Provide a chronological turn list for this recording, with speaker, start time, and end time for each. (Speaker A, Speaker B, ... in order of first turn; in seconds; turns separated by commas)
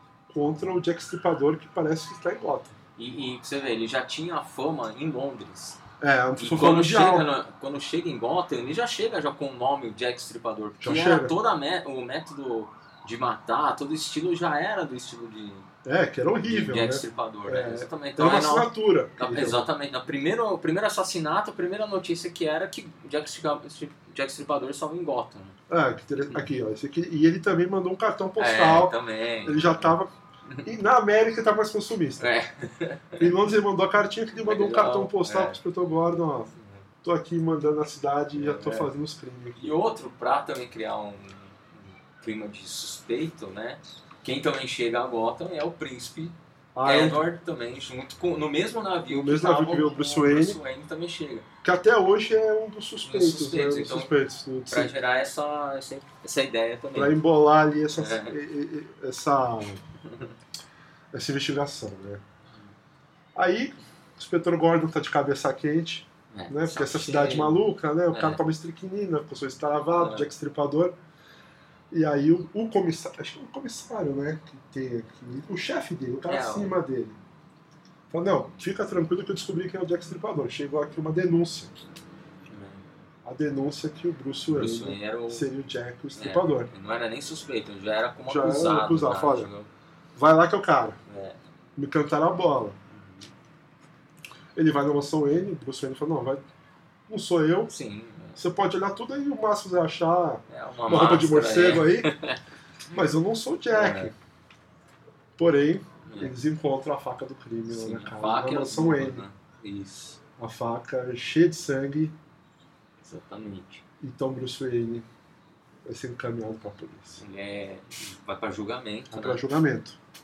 Speaker A: 0.3-2.8, Speaker B: 3.0-5.8, Speaker A: 6.0-7.3, Speaker B: 6.4-15.7, Speaker A: 10.8-11.3, Speaker A: 15.8-19.7, Speaker B: 16.5-25.6, Speaker A: 25.7-30.1, Speaker B: 28.4-29.9, Speaker B: 30.5-30.7, Speaker A: 30.6-32.3, Speaker B: 32.2-33.4, Speaker A: 33.2-36.5, Speaker B: 34.5-35.6, Speaker B: 36.6-36.8, Speaker A: 37.0-39.7, Speaker B: 38.4-38.9, Speaker B: 39.6-51.5, Speaker A: 46.8-47.2, Speaker A: 49.1-50.6, Speaker A: 51.6-54.9, Speaker B: 53.0-54.1, Speaker B: 54.7-57.2, Speaker A: 57.0-59.8, Speaker B: 57.9-58.4, Speaker B: 60.0-60.3, Speaker A: 61.1-62.2, Speaker A: 63.4-71.0, Speaker B: 66.3-68.4, Speaker B: 70.0-70.3, Speaker A: 71.9-77.2, Speaker B: 76.3-76.8, Speaker A: 78.1-81.8, Speaker B: 82.5-82.9, Speaker A: 83.2-86.7, Speaker B: 84.5-85.5, Speaker B: 86.2-89.7, Speaker A: 88.3-89.5, Speaker A: 90.2-91.0, Speaker B: 91.1-91.4, Speaker A: 91.8-92.8, Speaker B: 92.9-93.3, Speaker A: 94.5-96.4, Speaker A: 97.1-97.7, Speaker B: 97.7-98.4, Speaker A: 98.4-102.1, Speaker B: 100.5-102.4, Speaker A: 102.9-104.1, Speaker B: 103.7-104.1, Speaker A: 105.4-109.2, Speaker B: 106.0-106.3, Speaker B: 107.7-110.2, Speaker A: 110.4-112.2, Speaker B: 113.0-113.8, Speaker A: 114.0-115.1, Speaker A: 115.9-117.2, Speaker B: 117.2-119.4, Speaker A: 119.1-120.0